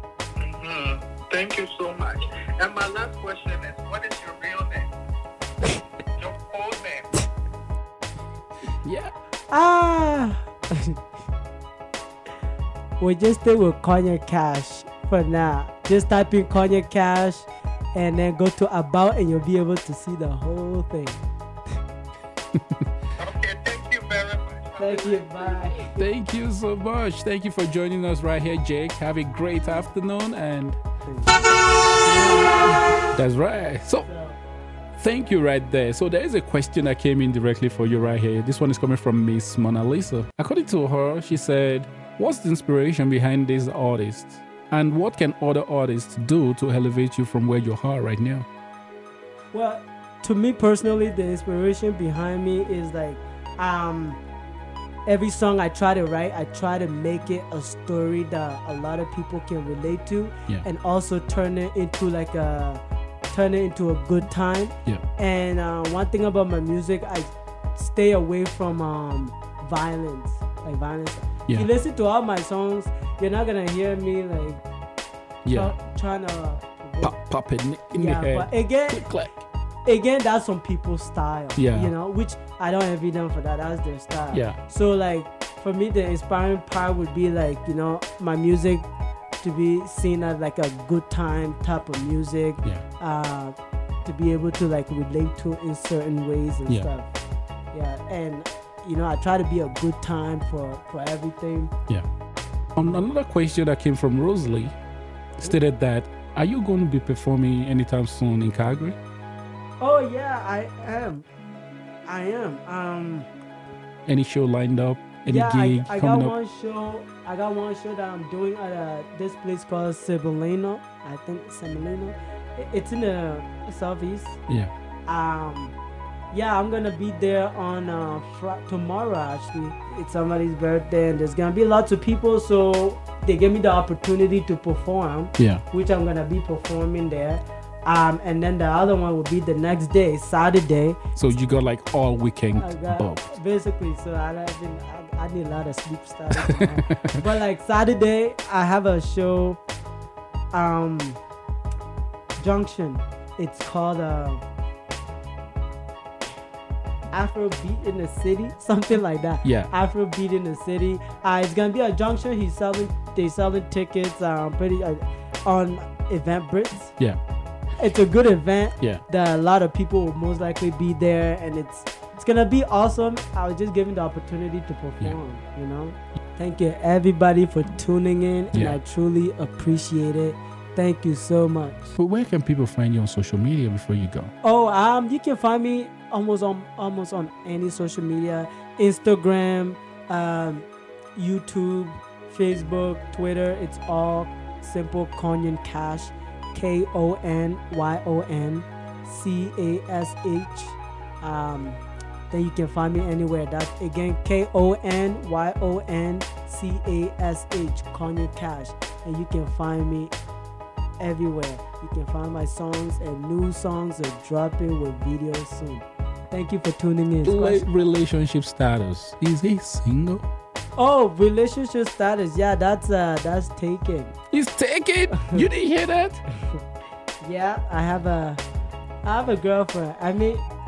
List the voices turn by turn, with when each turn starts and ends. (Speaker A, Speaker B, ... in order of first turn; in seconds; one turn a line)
Speaker A: 0.4-4.9
Speaker A: 6.2-7.2
Speaker B: 8.8-9.1
Speaker C: 9.5-11.0
Speaker C: 13.0-21.2
Speaker A: 23.2-25.6
Speaker C: 24.8-26.1
Speaker B: 25.8-30.8
Speaker C: 31.1-31.4
Speaker C: 32.0-32.7
Speaker B: 33.1-34.1
Speaker C: 34.0-34.4
Speaker B: 35.0-48.5
Speaker C: 49.5-54.2
Speaker C: 55.0-74.6
Speaker B: 75.4-75.8
Speaker C: 75.5-77.1
Speaker B: 77.0-79.4
Speaker C: 77.9-79.1
Speaker C: 79.8-88.9
Speaker B: 81.5-81.9
Speaker B: 84.3-84.6
Speaker C: 89.4-97.1
Speaker C: 97.7-101.7
Speaker B: 102.8-104.7
Speaker B: 105.4-109.0
Speaker C: 109.8-111.2
Speaker C: 112.1-113.3
Speaker B: 114.1-116.3
Speaker C: 115.2-124.4
Speaker C: 125.1-125.7
Speaker C: 126.3-141.0
Speaker B: 135.4-135.6
Speaker B: 141.2-143.3
Speaker C: 142.5-149.6
Speaker B: 146.5-147.2
Speaker C: 150.5-151.2
Speaker C: 152.4-154.4
Speaker C: 157.1-167.0
Speaker B: 159.4-159.7
Speaker C: 167.8-181.9
Speaker B: 178.5-178.8
Speaker B: 181.9-184.3
Speaker C: 184.4-210.1
Speaker C: 211.0-217.6
Speaker B: 217.2-220.2
Speaker C: 220.8-224.1
Speaker B: 224.3-226.2
Speaker C: 227.2-228.4
Speaker C: 229.0-230.4